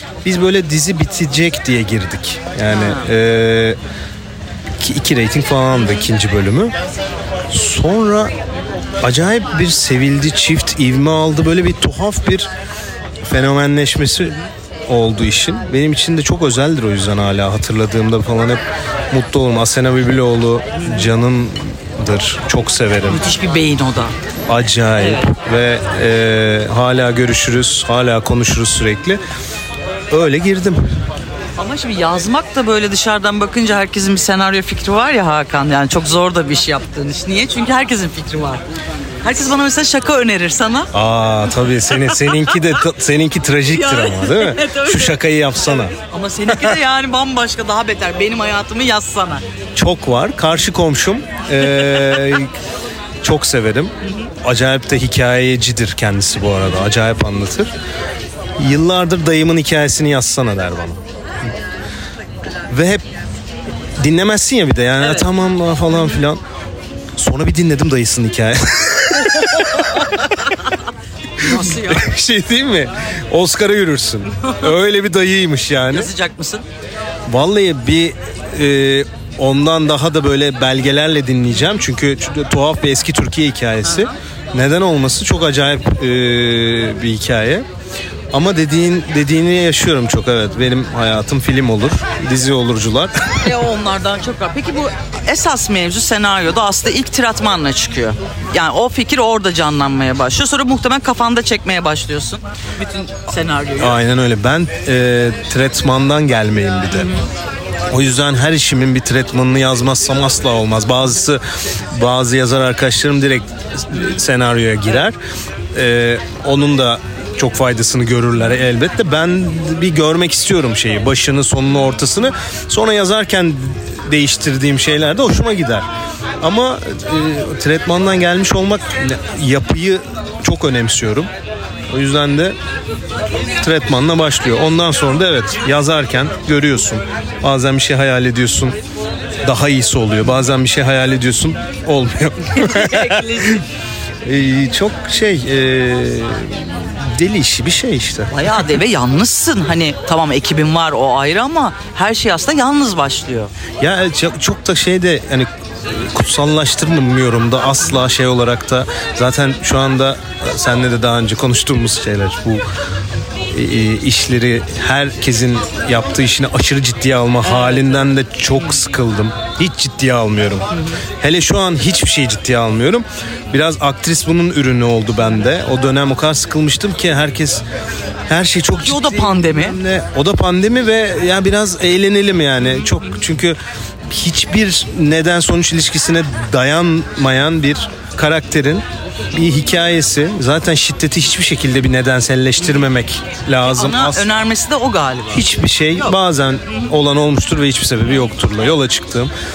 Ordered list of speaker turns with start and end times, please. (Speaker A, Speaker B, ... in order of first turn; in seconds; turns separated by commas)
Speaker A: 0.2-3.8, Speaker B: 2.7-3.1, Speaker A: 4.8-6.8, Speaker A: 7.5-8.3, Speaker A: 9.0-12.5, Speaker A: 13.2-23.2, Speaker B: 20.8-21.1, Speaker B: 23.1-24.1, Speaker A: 24.5-29.2, Speaker B: 25.0-25.3, Speaker A: 30.1-30.8, Speaker B: 31.6-38.6, Speaker B: 39.2-40.9, Speaker A: 40.9-45.9, Speaker B: 41.9-42.8, Speaker B: 43.7-49.4, Speaker A: 49.8-52.5, Speaker A: 53.2-57.7, Speaker A: 58.6-61.0, Speaker A: 62.7-63.0, Speaker A: 64.0-66.4, Speaker A: 67.2-70.3, Speaker B: 71.4-72.1, Speaker A: 71.4-76.1, Speaker B: 75.9-76.7, Speaker A: 77.3-87.7, Speaker B: 83.8-84.1, Speaker A: 88.3-93.4, Speaker B: 93.4-104.0, Speaker A: 103.8-107.1, Speaker B: 106.9-107.2, Speaker A: 107.9-115.2, Speaker A: 115.7-125.9, Speaker A: 126.4-131.3, Speaker A: 131.9-132.6, Speaker A: 133.6-138.8, Speaker A: 139.4-143.6, Speaker B: 142.6-143.6, Speaker A: 144.2-148.6, Speaker B: 148.3-153.5, Speaker A: 153.8-162.7, Speaker A: 163.5-170.7, Speaker B: 167.5-167.8, Speaker A: 171.2-177.6, Speaker A: 178.3-194.3, Speaker B: 178.8-179.8, Speaker B: 193.6-195.5, Speaker A: 195.3-199.3